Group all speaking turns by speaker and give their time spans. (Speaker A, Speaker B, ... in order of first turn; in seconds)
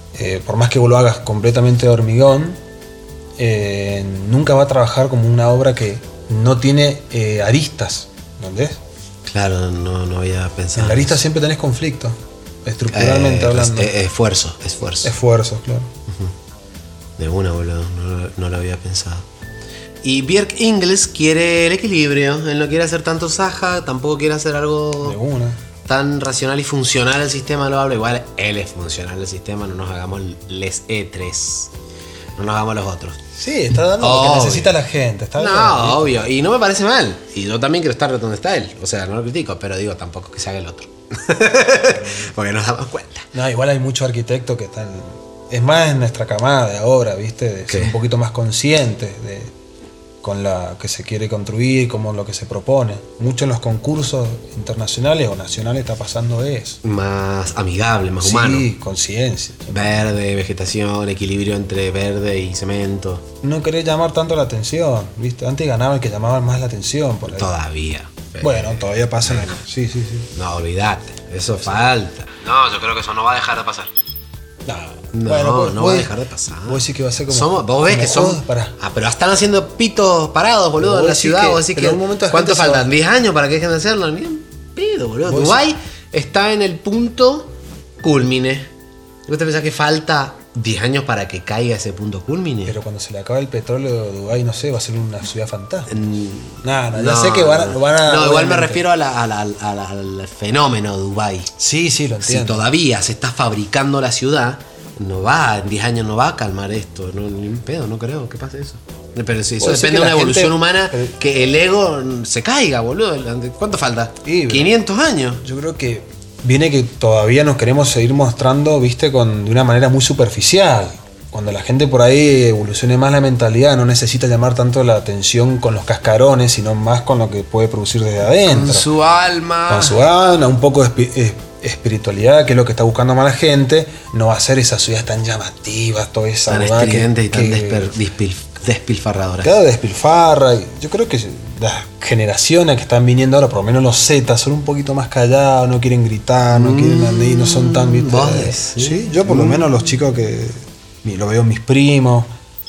Speaker A: 0.1-2.6, 3.4-8.8, 10.7-14.0, 15.0-15.9, 25.0-25.6, 33.4-36.3, 41.9-42.3, 43.3-49.5, 50.2-56.8, 58.2-60.0, 63.4-67.5, 68.4-70.3, 71.5-71.8, 74.7-76.1, 76.7-78.8, 80.8-82.9, 85.2-85.6, 92.7-96.0, 96.6-98.8, 101.6-102.7, 109.6-111.2, 114.2-114.8, 115.4-128.9, 129.7-137.9, 139.4-152.3
Speaker B: 9.2-11.2, 12.9-15.1, 16.1-16.3, 17.2-19.2, 20.0-25.2, 25.8-31.7, 32.4-33.2, 34.0-34.7, 35.4-43.3, 47.7-47.9, 56.8-58.7, 59.7-63.2, 67.3-69.6, 70.3-73.9, 75.1-87.5, 88.0-88.7, 89.2-92.8, 95.9-101.5, 102.2-115.4, 128.4-130.0, 136.5-139.5, 146.5-149.7